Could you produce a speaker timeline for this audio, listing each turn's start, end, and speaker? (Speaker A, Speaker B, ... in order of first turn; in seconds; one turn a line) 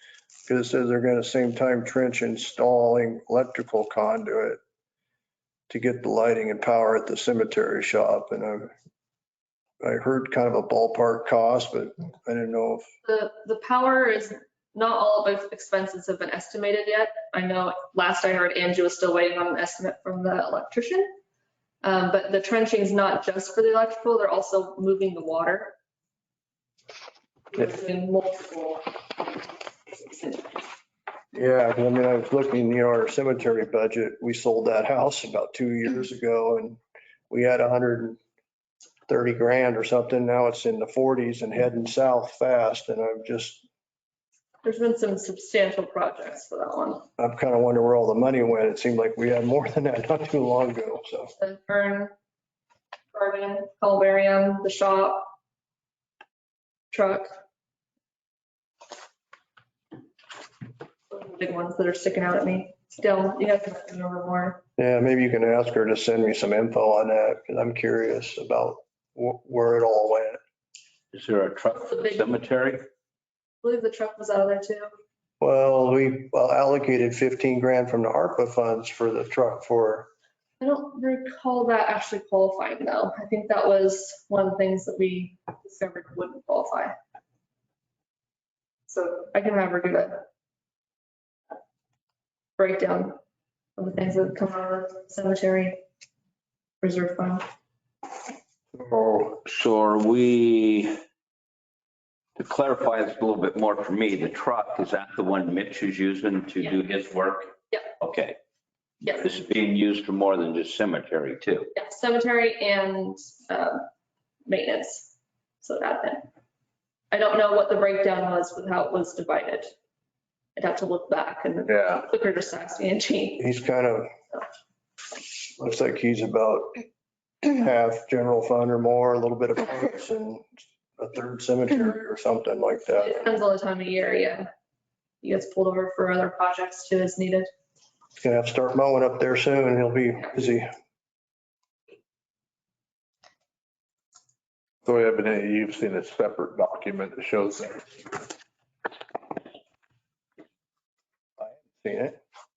Speaker A: 0.5-4.6
Speaker A: 5.7-8.7
Speaker A: 9.8-12.8
Speaker B: 13.0-21.1
Speaker B: 21.8-25.7
Speaker B: 27.5-28.8
Speaker B: 29.9-30.5
Speaker A: 31.3-38.2
Speaker A: 39.1-43.6
Speaker B: 44.6-47.0
Speaker A: 47.2-51.3
Speaker B: 51.4-52.1
Speaker B: 53.1-55.2
Speaker B: 56.9-57.3
Speaker B: 61.1-64.6
Speaker A: 64.8-70.4
Speaker C: 71.1-72.8
Speaker B: 71.7-72.4
Speaker B: 73.6-74.9
Speaker A: 75.4-80.1
Speaker B: 80.6-86.9
Speaker B: 88.9-90.2
Speaker B: 92.6-93.2
Speaker B: 93.8-95.8
Speaker B: 96.8-97.4
Speaker D: 98.7-99.4
Speaker C: 99.4-101.0
Speaker C: 102.4-108.4
Speaker C: 109.1-111.7
Speaker B: 111.7-113.8
Speaker B: 114.5-116.3
Speaker B: 117.1-119.7
Speaker B: 120.5-123.4
Speaker D: 121.7-122.0
Speaker A: 123.4-124.1
Speaker A: 125.5-126.8
Speaker A: 127.4-130.4
Speaker A: 131.0-133.2
Speaker B: 133.0-134.5
Speaker B: 135.2-137.5
Speaker A: 138.2-140.7
Speaker D: 144.8-148.2
Speaker A: 151.4-152.2